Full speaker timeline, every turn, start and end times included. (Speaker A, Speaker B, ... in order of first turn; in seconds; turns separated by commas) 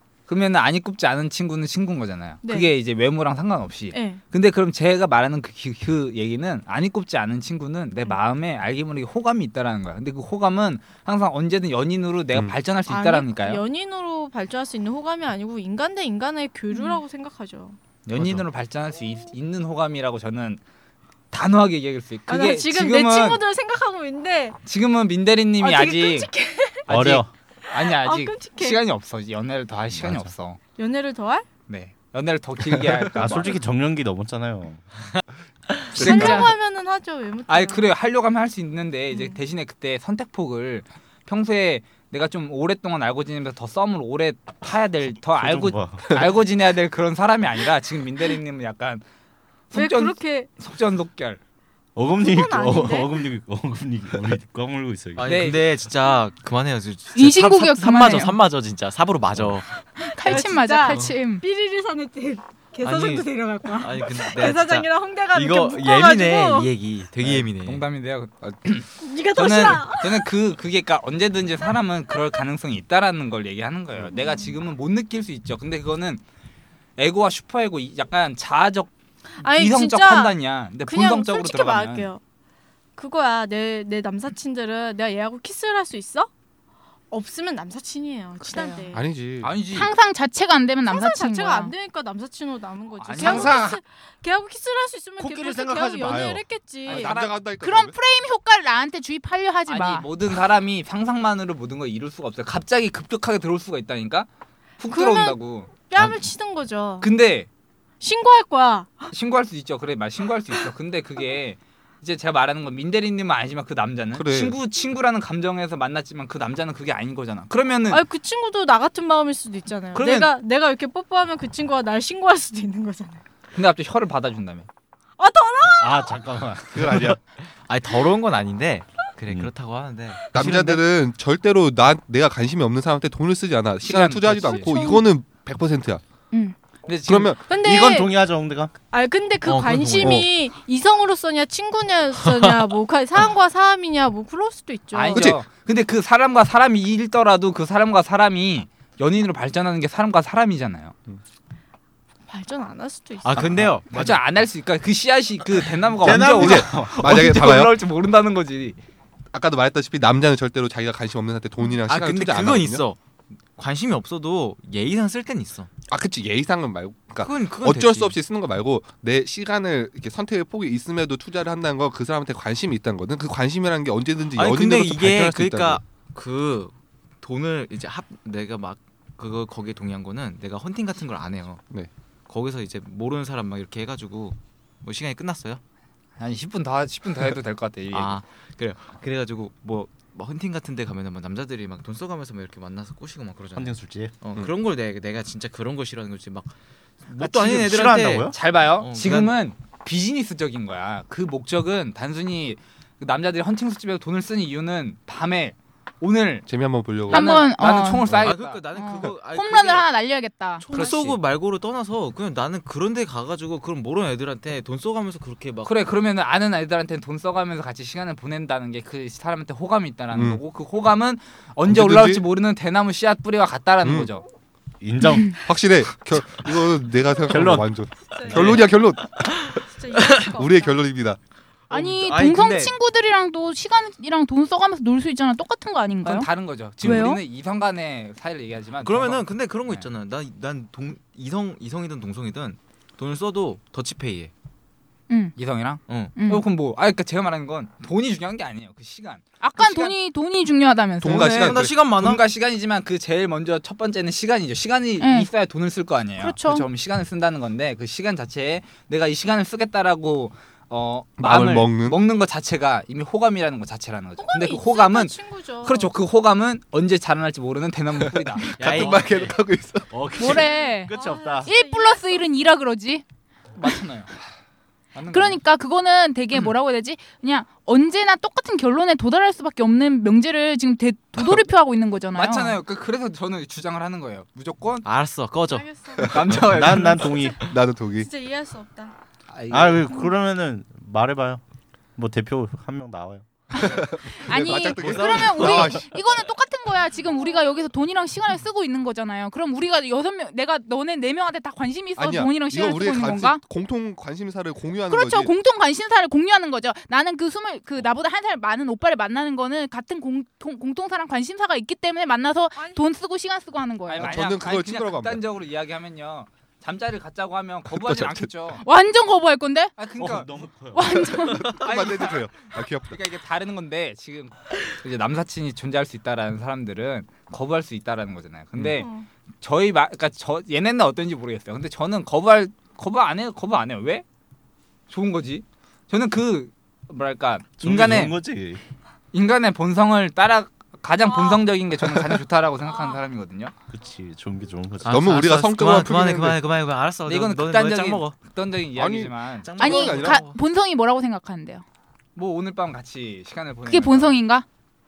Speaker A: 0.3-13.6, Speaker B: 2.4-2.7, Speaker B: 3.9-4.2, Speaker B: 12.9-17.8, Speaker A: 18.0-20.6, Speaker A: 21.3-23.4, Speaker B: 22.3-24.6, Speaker A: 24.6-26.3, Speaker B: 25.6-26.9, Speaker A: 26.9-30.6, Speaker C: 26.9-27.3, Speaker B: 27.7-28.8, Speaker C: 29.9-30.3, Speaker B: 30.8-31.5, Speaker A: 31.7-33.6, Speaker C: 33.1-34.8, Speaker D: 36.0-36.4, Speaker B: 36.0-37.9, Speaker A: 36.0-36.5, Speaker E: 36.1-36.5, Speaker A: 37.5-49.0, Speaker C: 45.4-46.0, Speaker A: 49.7-51.4, Speaker B: 49.7-50.5, Speaker C: 52.0-55.5, Speaker B: 52.2-53.2, Speaker F: 55.1-59.7, Speaker A: 55.2-55.7, Speaker E: 57.1-58.4, Speaker C: 59.3-59.6, Speaker E: 60.0-61.4, Speaker B: 60.0-66.7, Speaker F: 62.8-67.8, Speaker D: 67.2-67.5, Speaker A: 67.6-76.2, Speaker B: 69.0-70.3, Speaker A: 77.0-78.9, Speaker B: 79.4-82.2, Speaker A: 79.4-82.1, Speaker B: 83.0-86.3, Speaker B: 87.1-89.1, Speaker E: 88.4-88.9, Speaker D: 88.9-89.6, Speaker A: 89.4-89.9, Speaker E: 89.7-91.7, Speaker B: 90.8-97.2, Speaker A: 93.0-93.6, Speaker C: 93.2-93.8, Speaker C: 95.2-96.4, Speaker A: 96.8-97.4, Speaker D: 96.9-97.9, Speaker E: 97.6-100.1, Speaker A: 99.7-104.3, Speaker A: 104.8-105.8, Speaker B: 104.9-107.1, Speaker A: 107.0-107.5, Speaker B: 108.0-109.1, Speaker A: 109.1-118.0, Speaker D: 114.1-114.6, Speaker B: 117.9-123.2, Speaker A: 119.9-120.3, Speaker A: 123.5-124.7, Speaker B: 125.2-126.2, Speaker C: 125.8-127.2, Speaker D: 126.7-127.2, Speaker F: 127.6-130.8, Speaker D: 130.3-136.0, Speaker A: 133.8-134.7, Speaker B: 134.4-135.0, Speaker A: 136.8-137.3, Speaker D: 137.0-137.4, Speaker B: 137.4-138.1, Speaker C: 137.5-138.7, Speaker B: 138.9-145.3, Speaker F: 139.4-140.3, Speaker F: 142.2-142.6, Speaker A: 144.9-150.9, Speaker D: 145.1-145.4, Speaker B: 152.3-153.5, Speaker F: 153.2-153.9, Speaker C: 153.3-154.2, Speaker A: 153.9-158.8, Speaker C: 156.0-157.3, Speaker D: 156.0-157.8, Speaker D: 159.3-162.8, Speaker F: 161.9-163.0, Speaker F: 163.6-165.7, Speaker D: 165.9-175.8, Speaker F: 167.2-168.2, Speaker F: 174.3-181.6, Speaker F: 182.3-185.6, Speaker A: 186.2-188.2, Speaker F: 187.9-196.5, Speaker C: 193.5-194.1, Speaker F: 197.0-199.4, Speaker C: 197.2-198.3, Speaker A: 197.6-206.5, Speaker D: 206.5-207.4, Speaker A: 207.1-208.6, Speaker E: 207.1-208.2, Speaker F: 208.1-209.9, Speaker E: 208.7-210.7, Speaker F: 210.6-215.7, Speaker A: 210.7-211.2, Speaker A: 215.6-224.3, Speaker D: 220.1-220.4, Speaker D: 221.7-222.2, Speaker D: 223.8-224.1, Speaker C: 224.8-225.4, Speaker E: 225.1-225.4, Speaker D: 225.4-229.6, Speaker C: 227.3-227.7, Speaker B: 228.1-228.9, Speaker B: 229.5-230.8, Speaker D: 230.2-231.2, Speaker F: 231.7-232.7, Speaker E: 231.7-237.2, Speaker A: 236.0-239.9, Speaker F: 238.8-244.3, Speaker E: 245.1-245.3, Speaker A: 245.3-249.9, Speaker F: 245.9-246.2, Speaker E: 246.2-246.4, Speaker E: 249.4-251.4, Speaker D: 251.0-251.8, Speaker F: 251.1-252.2, Speaker A: 251.3-268.8, Speaker E: 255.0-255.3, Speaker E: 256.2-256.7, Speaker D: 261.2-262.0, Speaker B: 264.2-265.9, Speaker D: 268.4-270.3, Speaker F: 268.6-269.4, Speaker C: 268.6-269.1, Speaker C: 269.9-271.5, Speaker E: 270.2-270.9, Speaker B: 270.4-272.4, Speaker E: 271.4-273.0, Speaker A: 273.6-274.1, Speaker A: 274.9-275.4, Speaker E: 275.1-282.6, Speaker A: 282.1-284.9, Speaker F: 284.8-287.0, Speaker B: 285.5-286.1, Speaker D: 286.0-286.9, Speaker C: 286.3-287.5, Speaker A: 286.4-286.8, Speaker B: 287.1-287.3, Speaker D: 287.4-288.1, Speaker B: 287.9-288.9, Speaker A: 289.3-289.9, Speaker C: 289.5-291.4, Speaker C: 291.9-293.3, Speaker E: 293.5-303.4, Speaker D: 293.6-295.9, Speaker C: 294.8-295.6, Speaker D: 302.0-305.3, Speaker E: 304.9-314.2, Speaker B: 312.5-312.8, Speaker A: 313.9-318.6, Speaker D: 313.9-315.2, Speaker D: 317.7-318.3, Speaker E: 318.6-319.7, Speaker A: 319.8-320.3, Speaker C: 320.0-321.1, Speaker E: 320.7-321.6, Speaker D: 321.1-323.0, Speaker A: 321.5-334.0, Speaker B: 328.8-329.1, Speaker A: 334.9-338.1, Speaker C: 337.6-338.6, Speaker A: 339.1-343.5, Speaker B: 341.0-341.5, Speaker B: 342.6-343.0, Speaker C: 343.7-345.1, Speaker F: 344.8-348.2, Speaker D: 344.9-346.4, Speaker A: 347.1-350.0, Speaker D: 348.8-350.2, Speaker F: 349.4-350.4, Speaker E: 349.6-351.6, Speaker A: 352.1-354.2, Speaker E: 353.6-354.4